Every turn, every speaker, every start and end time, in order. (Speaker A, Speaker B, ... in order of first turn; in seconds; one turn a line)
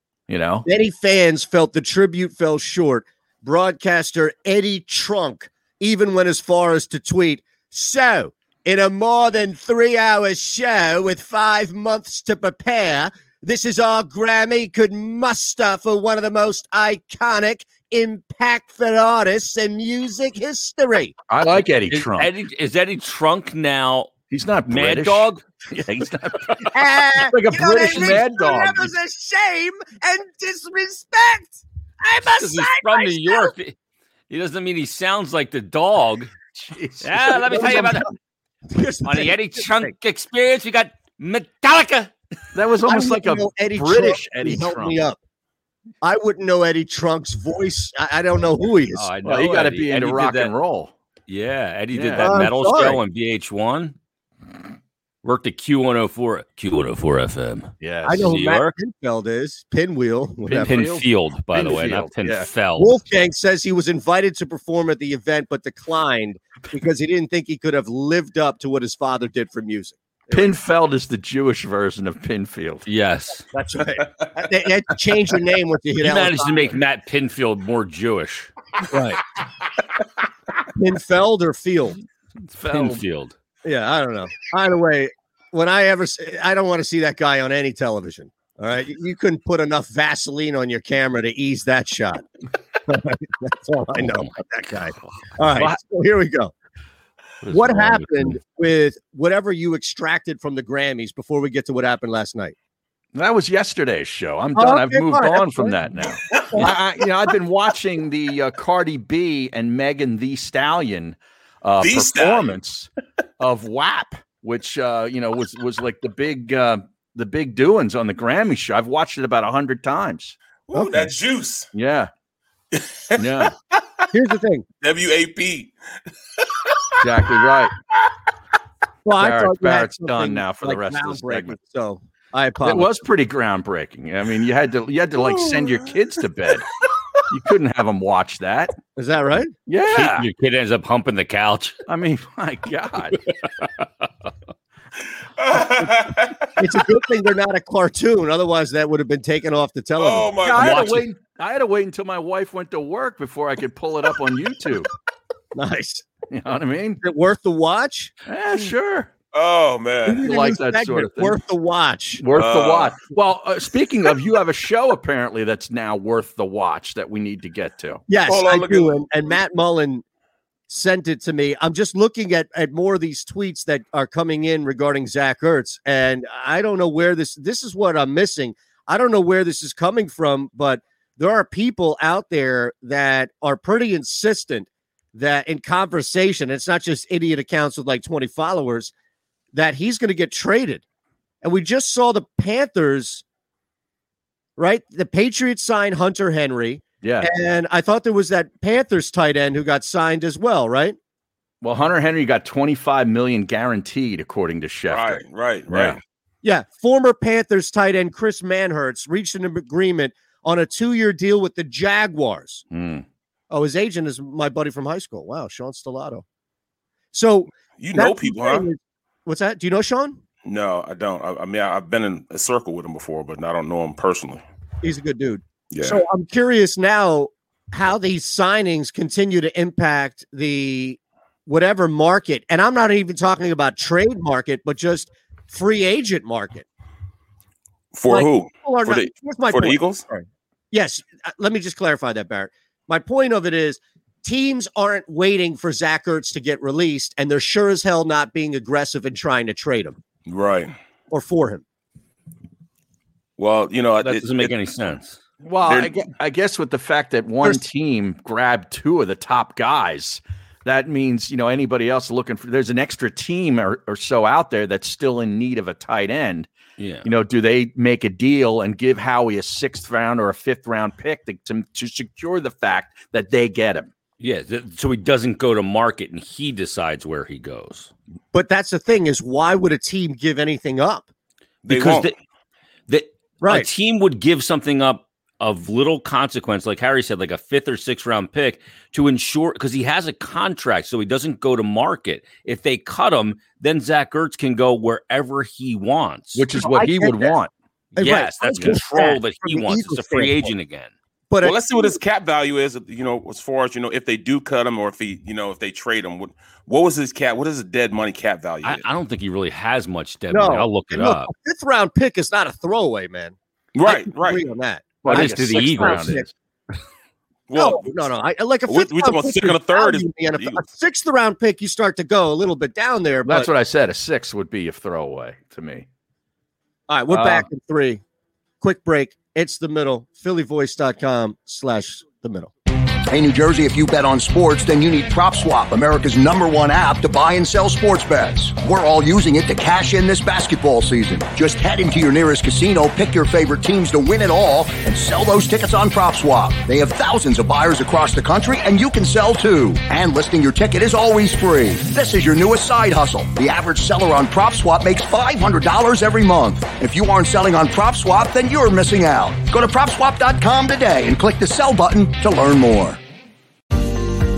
Speaker A: 0.3-0.7
Speaker B: 0.7-21.2
Speaker A: 21.3-22.3
Speaker C: 21.9-24.1
Speaker A: 24.3-28.9
Speaker C: 24.7-25.4
Speaker B: 26.7-33.5
Speaker C: 32.4-33.8
Speaker C: 34.3-36.3
Speaker A: 36.6-37.9
Speaker C: 37.0-38.1
Speaker B: 37.5-38.1
Speaker B: 38.7-39.9
Speaker C: 39.0-42.1
Speaker A: 42.5-45.0
Speaker B: 42.9-45.2
Speaker B: 46.0-49.1
Speaker C: 48.9-50.5
Speaker A: 49.2-50.9
Speaker C: 51.3-54.0
Speaker A: 51.9-52.4
Speaker B: 52.2-53.0
Speaker C: 55.2-58.7
Speaker A: 57.8-58.3
Speaker B: 58.0-60.7
Speaker A: 60.5-62.5
Speaker C: 60.6-62.9
Speaker B: 62.8-70.5
Speaker A: 70.3-72.9
Speaker C: 72.9-73.4
Speaker B: 73.5-76.8
Speaker C: 76.0-78.5
Speaker B: 78.9-79.2
Speaker B: 80.8-82.0
Speaker A: 82.6-83.0
Speaker C: 82.6-83.3
Speaker B: 83.7-92.2
Speaker B: 92.9-96.5
Speaker C: 94.0-94.3
Speaker A: 95.5-95.8
Speaker C: 97.4-98.3
Speaker B: 97.5-102.5
Speaker A: 103.2-112.9
Speaker B: 104.5-105.8
Speaker B: 106.3-106.8
Speaker D: 111.8-112.6
Speaker A: 113.4-120.3
Speaker D: 120.7-121.7
Speaker B: 120.7-121.1
Speaker A: 121.7-122.1
Speaker D: 122.7-123.8
Speaker A: 123.2-123.5
Speaker B: 124.1-124.7
Speaker D: 124.8-125.7
Speaker D: 126.4-126.8
Speaker A: 127.0-127.7
Speaker B: 129.1-132.9
Speaker A: 129.2-131.6
Speaker A: 132.6-136.7
Speaker A: 137.3-138.7
Speaker B: 139.0-139.5
Speaker A: 139.7-140.3
Speaker C: 139.9-141.8
Speaker A: 141.9-143.2
Speaker C: 143.1-143.7
Speaker D: 145.4-146.5
Speaker B: 146.6-150.7
Speaker D: 150.0-151.0
Speaker A: 150.4-154.9
Speaker C: 150.6-150.9
Speaker B: 155.6-156.1
Speaker A: 156.3-157.0
Speaker B: 157.0-158.1
Speaker A: 158.3-159.1
Speaker D: 159.3-160.3
Speaker B: 160.1-162.2
Speaker A: 160.2-161.4
Speaker A: 162.2-168.0
Speaker D: 162.3-163.0
Speaker B: 168.1-170.0
Speaker D: 168.3-169.1
Speaker B: 170.7-188.9
Speaker B: 189.5-190.8
Speaker B: 191.4-193.2
Speaker B: 194.6-201.0
Speaker A: 197.0-197.3
Speaker A: 201.6-206.0
Speaker D: 204.9-206.0
Speaker B: 206.4-212.6
Speaker A: 212.7-213.1
Speaker B: 213.5-216.2
Speaker B: 217.1-220.2
Speaker D: 217.8-218.7
Speaker D: 220.4-224.4
Speaker B: 224.8-236.7
Speaker D: 225.7-226.0
Speaker D: 237.9-240.1
Speaker B: 238.1-250.0
Speaker D: 250.3-250.7
Speaker B: 251.1-251.6
Speaker D: 253.4-254.3
Speaker C: 254.0-255.2
Speaker A: 255.4-266.5
Speaker D: 255.7-255.9
Speaker C: 266.8-267.1
Speaker A: 267.0-273.9
Speaker C: 274.2-277.9
Speaker B: 278.3-281.1
Speaker D: 281.6-282.1
Speaker C: 281.7-282.1
Speaker C: 282.9-296.5
Speaker B: 283.4-283.7
Speaker A: 296.4-297.5
Speaker B: 296.5-297.4
Speaker C: 298.0-300.9
Speaker B: 298.0-300.5
Speaker B: 301.3-302.0
Speaker D: 301.4-308.8
Speaker C: 308.6-311.3
Speaker B: 310.3-316.3
Speaker D: 313.8-314.4
Speaker A: 315.0-316.3
Speaker C: 315.1-316.2
Speaker D: 317.5-317.9
Speaker B: 317.6-323.5
Speaker D: 318.7-320.6
Speaker A: 323.2-325.9
Speaker B: 326.9-328.0
Speaker A: 327.1-327.5
Speaker B: 328.6-332.5
Speaker E: 333.1-363.0